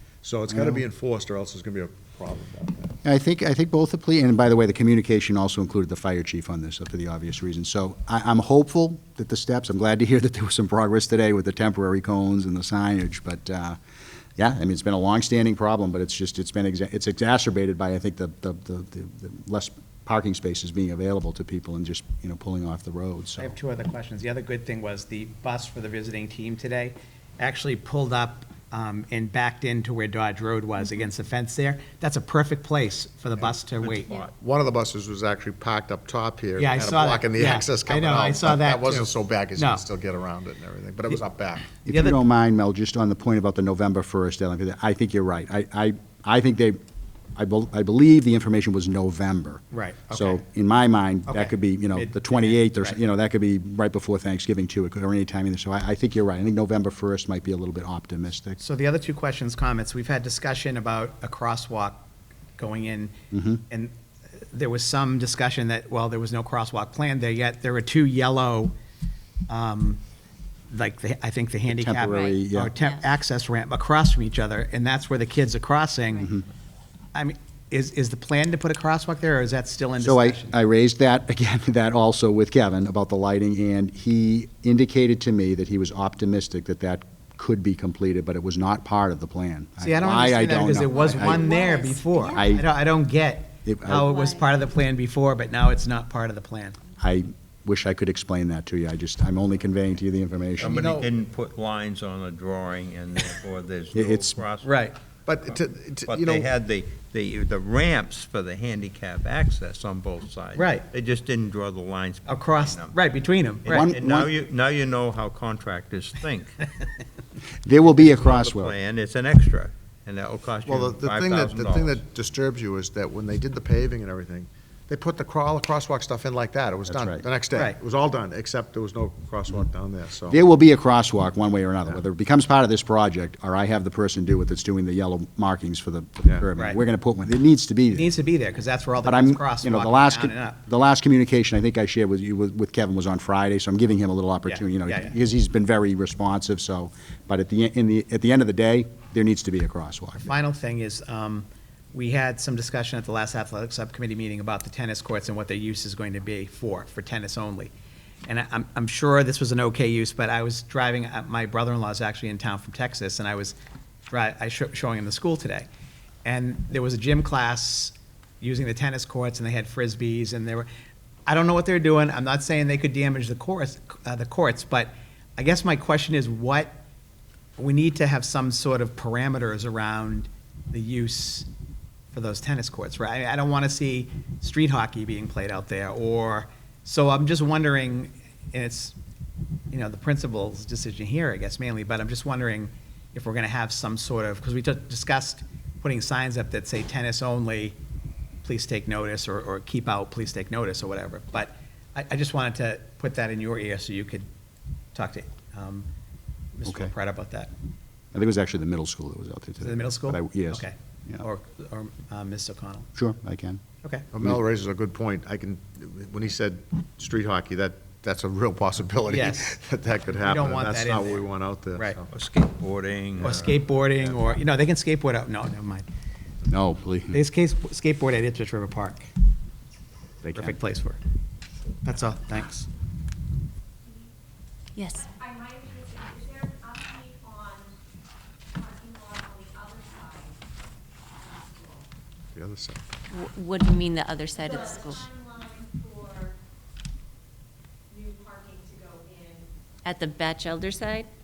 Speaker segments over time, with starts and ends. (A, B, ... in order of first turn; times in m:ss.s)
0:00.2-0:03.0 A
0:00.5-0:00.8 B
0:03.0-0:13.8 B
0:14.4-0:23.6 B
0:23.4-0:34.2 C
0:33.9-0:34.3 D
0:34.1-0:41.7 A
0:36.6-0:39.8 C
0:41.8-0:46.8 B
0:41.8-0:42.2 C
0:47.4-0:58.6 B
0:49.7-0:50.4 C
0:51.3-0:53.0 C
0:58.6-1:02.0 C
1:02.6-1:03.2 C
1:03.3-1:03.6 B
1:03.7-1:08.7 C
1:09.5-1:10.0 C
1:10.7-1:16.3 C
1:11.7-1:12.7 B
1:12.0-1:13.1 E
1:17.1-1:20.6 C
1:20.0-1:31.7 B
1:29.8-1:36.8 C
1:31.7-1:32.5 E
1:32.3-1:32.7 B
1:33.7-1:34.1 B
1:34.1-1:34.4 E
1:37.0-1:40.9 B
1:40.6-1:44.7 D
1:40.8-1:41.1 A
1:43.9-1:44.4 B
1:44.6-1:45.0 C
1:45.2-1:46.5 A
1:46.1-1:53.0 D
1:50.6-1:50.9 C
1:52.3-1:53.9 C
1:53.6-1:56.7 D
1:53.7-1:54.3 B
1:57.6-1:58.8 B
1:57.9-2:02.0 D
2:00.7-2:10.4 A
2:06.9-2:07.2 B
2:10.3-2:18.1 B
2:17.9-2:20.6 C
2:19.0-2:30.3 B
2:24.4-2:25.2 C
2:30.2-2:37.7 C
2:38.2-2:43.6 C
2:44.1-2:45.7 C
2:46.2-2:50.7 C
2:51.2-2:56.8 C
2:57.6-3:01.5 C
3:02.1-3:09.0 C
3:09.7-3:17.8 C
3:18.4-3:24.3 C
3:24.9-3:25.9 C
3:26.6-3:27.5 C
3:26.6-3:26.9 B
3:28.1-3:31.2 B
3:29.6-3:32.9 C
3:32.9-3:33.6 B
3:33.8-3:34.1 C
3:34.1-3:42.1 A
3:39.1-3:39.6 C
3:40.2-3:42.0 C
3:42.1-3:44.4 D
3:43.2-3:45.9 C
3:46.5-3:47.2 B
3:47.1-3:49.1 C
3:50.2-3:50.6 B
3:50.3-3:51.0 C
3:51.8-3:52.7 C
3:54.8-3:55.1 E
3:55.0-3:57.7 F
3:58.6-4:00.3 F
4:01.2-4:01.8 F
4:02.3-4:02.8 A
4:03.1-4:05.1 E
4:04.4-4:06.3 F
4:07.9-4:09.5 F
4:09.8-4:11.1 E